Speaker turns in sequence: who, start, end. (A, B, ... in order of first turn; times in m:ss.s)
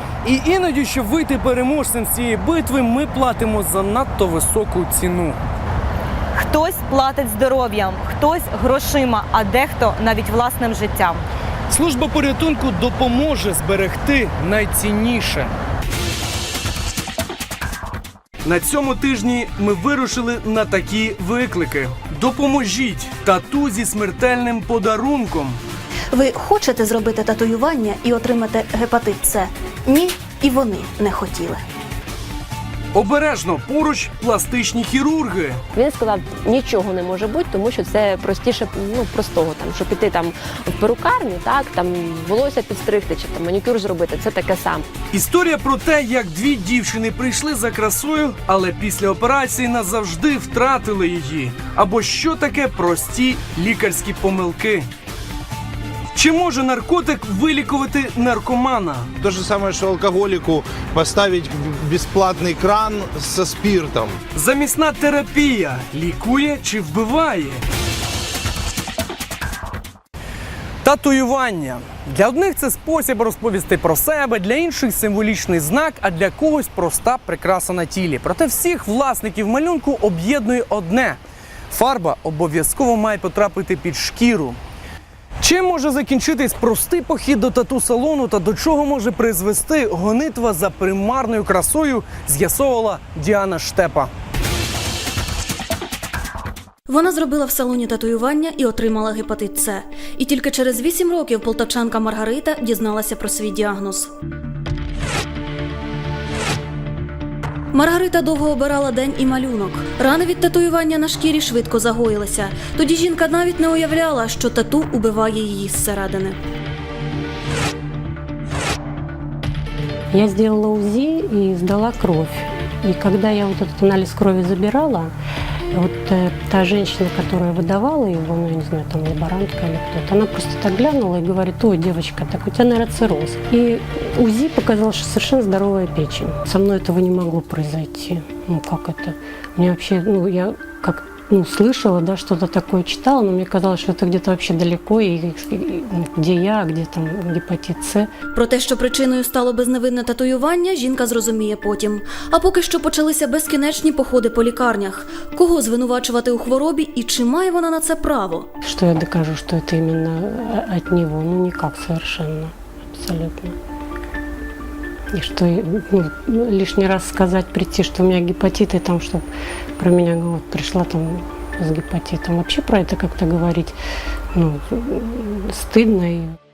0:00.2-0:05.4 A
0:06.3-0:11.2 B
0:11.7-0:15.5 A
0:18.4-0:25.6 A
0:26.1-0:31.6 C
0:32.9-0:35.6 A
0:35.7-0:44.8 D
0:45.1-0:54.9 A
0:56.1-0:59.1 A
0:59.2-1:04.2 E
1:04.3-1:07.6 A
1:10.8-1:21.2 A
1:21.7-1:24.6 A
1:25.4-1:34.1 A
1:36.9-1:44.1 C
1:47.7-1:56.4 C
2:00.1-2:05.1 F
2:05.7-2:28.1 F
2:28.4-2:38.5 C
2:38.6-2:43.5 F
2:45.1-2:53.8 F
2:54.3-2:56.4 F